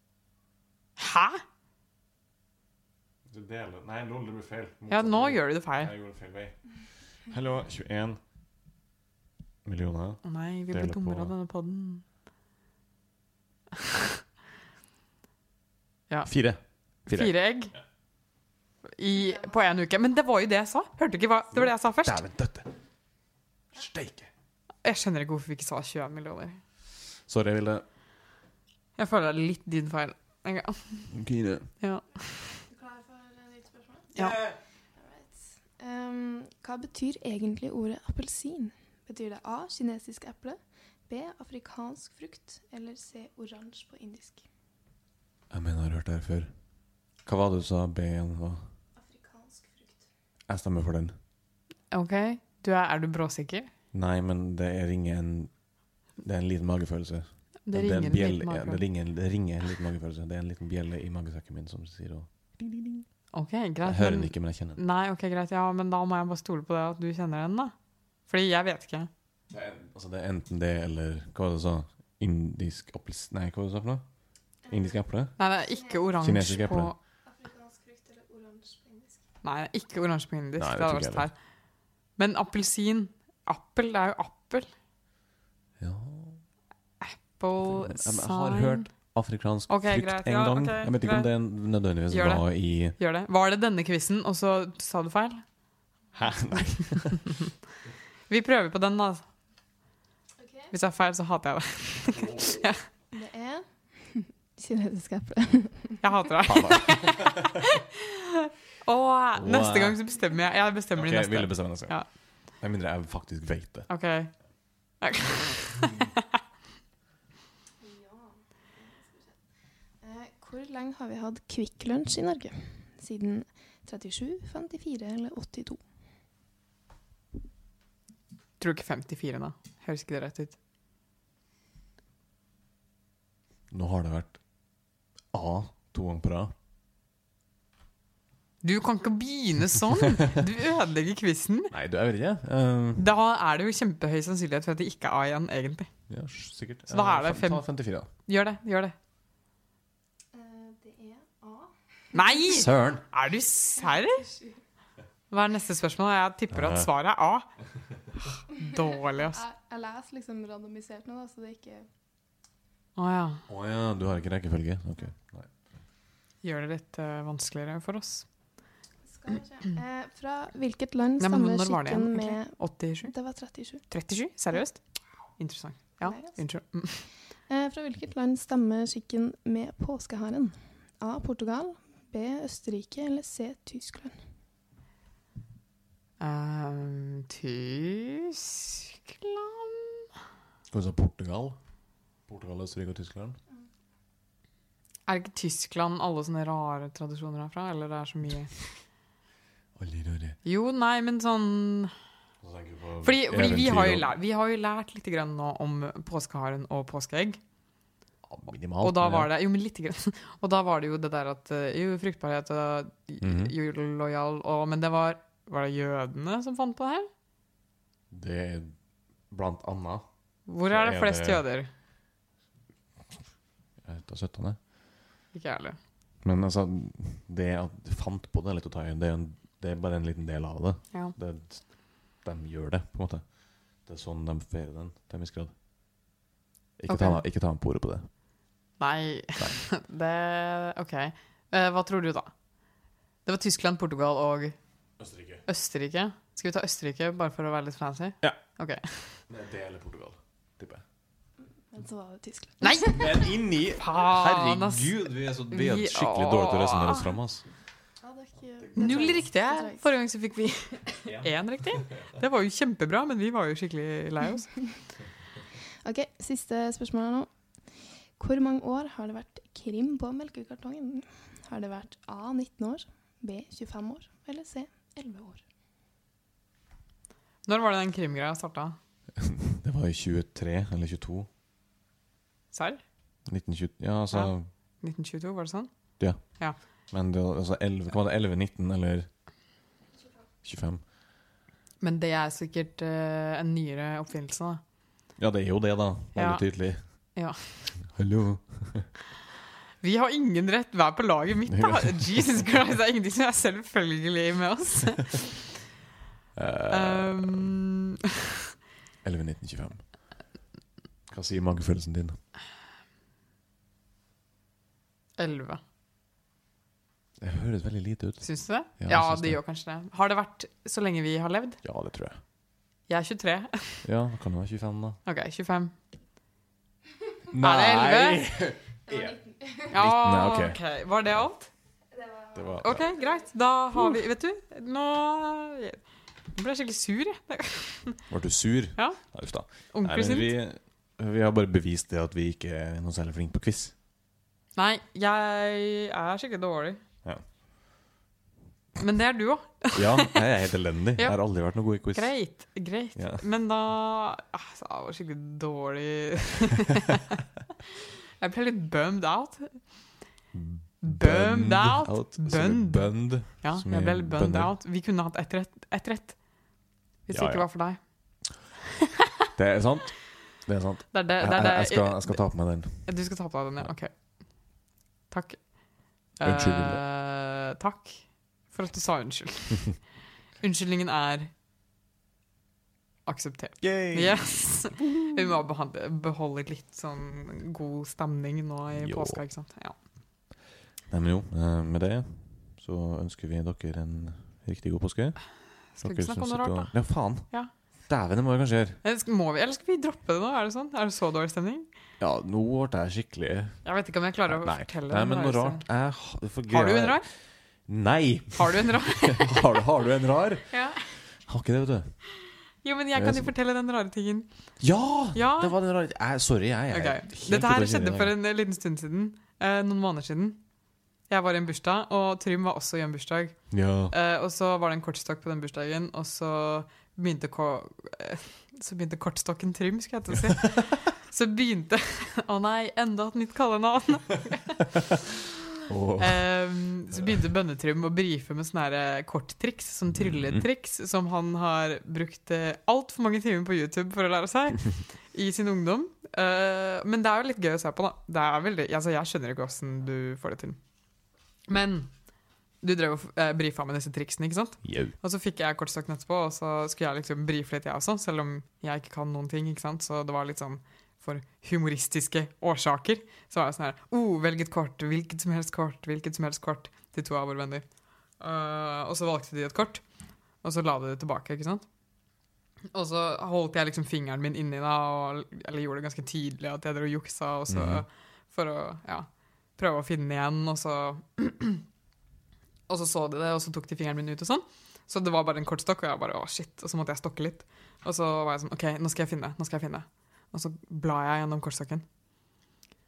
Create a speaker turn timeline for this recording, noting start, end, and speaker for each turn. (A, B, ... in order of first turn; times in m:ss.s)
0:01.0-0:01.4 A
0:03.3-0:08.2 B
0:04.9-0:05.9 A
0:09.6-0:11.3 B
0:10.2-0:12.0 A
0:16.2-0:17.8 B
0:17.1-0:17.7 A
0:19.0-0:22.2 A
0:21.5-0:22.7 B
0:23.7-0:24.3 B
0:24.8-0:26.6 A
0:27.3-0:27.8 B
0:29.0-0:31.2 A
0:31.1-0:31.7 B
0:31.8-0:32.6 A
0:32.6-0:34.1 C
0:34.1-0:34.4 A
0:34.2-0:34.5 B
0:34.9-0:44.4 C
0:45.5-0:46.5 B
0:47.2-0:48.6 B
0:48.9-0:50.0 C
0:50.5-0:51.1 B
0:51.9-0:53.7 A
0:53.9-0:55.5 B
0:56.2-1:03.1 B
0:57.6-0:58.8 A
1:03.3-1:07.7 A
1:03.8-1:04.8 B
1:08.3-1:09.1 A
1:09.5-1:14.0 B
1:14.6-1:15.0 C
1:14.7-1:15.3 B
1:15.4-1:16.9 A
1:15.6-1:16.2 C
1:16.2-1:16.9 B
1:17.2-1:19.2 C
1:19.4-1:21.3 A
1:20.6-1:21.3 B
1:22.2-1:24.7 A
1:25.8-1:26.4 B
1:27.0-1:28.9 A
1:27.6-1:33.0 B
1:29.7-1:31.3 A
1:32.1-1:35.4 A
1:36.1-1:37.2 B
1:36.5-1:37.3 A
1:38.3-1:39.3 A
1:40.4-1:40.7 C
1:40.7-1:42.8 A
1:42.1-1:42.6 B
1:43.1-1:46.1 C
1:46.0-1:47.8 A
1:46.4-1:47.4 B
1:48.8-1:52.0 A
1:49.3-1:50.0 B
1:50.9-1:52.0 B
1:52.5-1:53.9 B
1:53.9-1:54.4 A
1:55.0-1:56.2 A
1:57.8-1:59.4 C
2:00.0-2:05.8 C
2:08.6-2:10.6 A
2:13.7-2:14.4 B
2:15.3-2:16.5 B
2:18.6-2:21.7 A
2:21.7-2:23.1 B
2:23.0-2:25.9 A
2:26.1-2:28.1 B
2:26.9-2:28.9 A
2:30.3-2:32.3 C
2:32.1-2:34.3 A
2:32.4-2:33.0 B
2:33.8-2:34.6 C
2:35.3-2:37.4 A
2:36.5-2:36.9 B
2:38.4-2:39.4 A
2:38.7-2:41.9 C
2:43.0-2:43.4 A
2:43.5-2:45.5 B
2:46.4-2:48.3 A
2:49.0-2:53.8 C
2:51.2-2:53.1 A
2:53.9-2:54.8 A
2:55.4-2:57.1 A
2:56.0-2:56.4 C
2:57.5-3:04.2 C
3:06.2-3:10.1 A
3:10.7-3:11.6 B
3:12.3-3:13.4 B
3:15.1-3:18.5 A
3:19.8-3:20.4 B
3:20.4-3:21.9 A
3:22.4-3:24.1 B
3:23.0-3:27.4 A
3:28.2-3:29.3 B
3:28.8-3:37.1 A
3:33.2-3:33.5 B
3:38.1-3:38.7 B
3:39.3-3:40.0 B
3:40.4-3:41.7 A
3:40.6-3:41.4 B
3:43.8-3:44.6 B
3:45.3-3:45.8 A
3:46.2-3:55.5 B
3:56.8-3:58.1 B
3:56.9-3:57.2 A
3:58.8-4:02.3 A
4:03.2-4:04.6 A
4:05.0-4:05.4 B
4:05.4-4:09.2 A
4:09.3-4:10.8 B
4:11.7-4:13.1 C
4:12.6-4:17.1 A
4:12.8-4:17.4 B
4:18.0-4:19.8 C
4:18.8-4:24.7 A
4:18.8-4:19.1 B
4:21.0-4:22.0 B
4:25.8-4:27.3 C
4:28.2-4:35.4 C
4:37.4-4:38.8 A
4:39.2-4:41.3 B
4:42.5-4:42.8 A
4:43.3-4:44.5 B
4:44.1-4:46.6 A
4:46.0-4:49.1 B
4:50.4-4:50.8 B
4:51.8-4:54.6 A
4:55.2-4:56.8 B
4:56.1-4:57.8 A
4:57.8-4:58.9 B
4:59.8-5:05.5 A
5:01.5-5:02.5 B
5:06.3-5:07.5 B
5:06.7-5:08.0 A
5:09.0-5:09.9 B
5:11.1-5:12.2 B
5:15.2-5:15.6 A
5:17.2-5:19.4 B
5:18.2-5:21.6 A
5:21.6-5:22.2 B
5:22.9-5:23.9 A
5:23.8-5:25.0 B
5:25.0-5:25.7 A
5:27.3-5:30.6 B
5:27.4-5:28.2 A
5:28.9-5:29.7 C
5:29.7-5:31.5 A
5:31.9-5:33.1 C
5:32.3-5:32.9 B
5:32.6-5:38.0 A
5:38.1-5:43.7 B
5:38.8-5:40.3 A
5:44.6-5:46.8 A
5:48.8-5:50.2 A
5:49.7-5:52.4 B
5:51.9-5:57.2 A
5:52.9-5:53.2 B
5:58.2-5:59.8 A
6:00.3-6:04.5 B
6:00.8-6:06.3 A
6:07.0-6:08.4 A
6:07.1-6:07.5 B
6:09.3-6:13.7 B
6:10.9-6:14.6 A
6:15.1-6:19.9 A
6:16.2-6:16.8 B
6:20.4-6:21.3 A
6:23.0-6:29.8 A
6:23.6-6:25.2 B
6:28.8-6:29.2 B
6:30.9-6:35.2 B
6:35.7-6:37.5 A
6:35.8-6:37.3 B
6:37.8-6:38.8 B
6:38.8-6:41.7 A
6:42.0-6:43.6 B
6:43.6-6:45.6 A
6:44.3-6:52.0 B
6:46.5-6:47.0 A
6:48.4-6:49.6 A
6:50.5-6:51.0 A
6:52.6-6:54.3 A
6:52.9-6:53.3 B
6:54.6-6:58.1 B
6:55.1-6:55.5 A
6:56.7-7:00.4 A
7:01.1-7:15.2 A
7:03.5-7:03.9 B
7:15.7-7:17.1 B
7:16.0-7:30.6 A
7:20.0-7:20.4 B
7:31.5-7:32.0 A
7:32.6-7:49.8 A
7:34.6-7:34.9 B
7:50.4-7:51.7 A
7:52.7-8:01.6 A
7:57.5-7:57.8 B
8:02.7-8:11.8 A